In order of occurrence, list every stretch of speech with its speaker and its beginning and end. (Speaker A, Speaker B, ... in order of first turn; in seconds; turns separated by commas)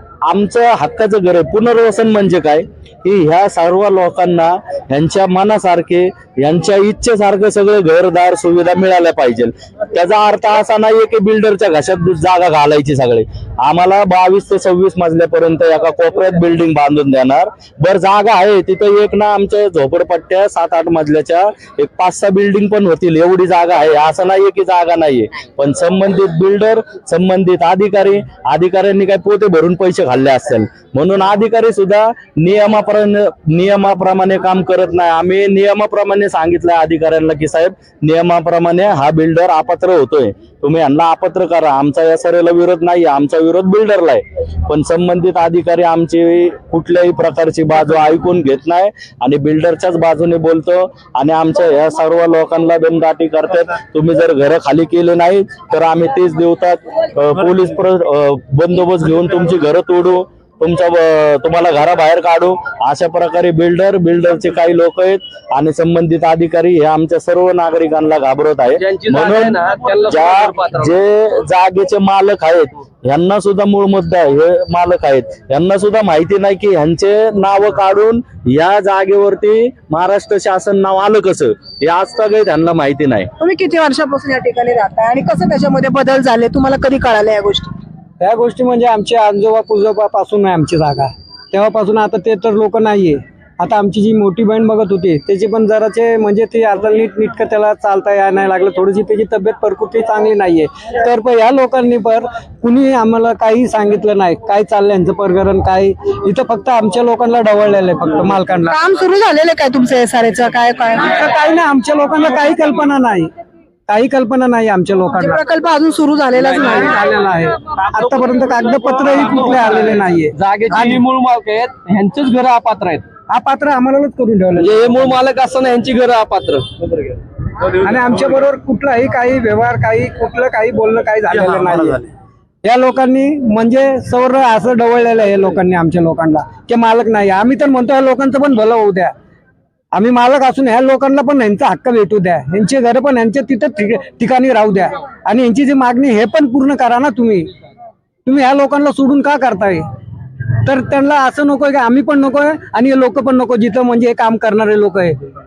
Speaker A: 0.3-83.3, Speaker B: 68.8-70.9, Speaker C: 83.4-87.7, Speaker D: 88.2-108.8, Speaker C: 108.7-111.2, Speaker D: 111.0-113.3, Speaker D: 113.9-115.4, Speaker C: 115.1-116.9, Speaker D: 116.7-121.0, Speaker B: 120.3-123.0, Speaker D: 123.3-125.1, Speaker B: 124.6-126.7, Speaker D: 127.8-132.1, Speaker D: 132.6-139.1, Speaker D: 139.9-147.5, Speaker D: 148.2-149.8, Speaker D: 150.7-155.2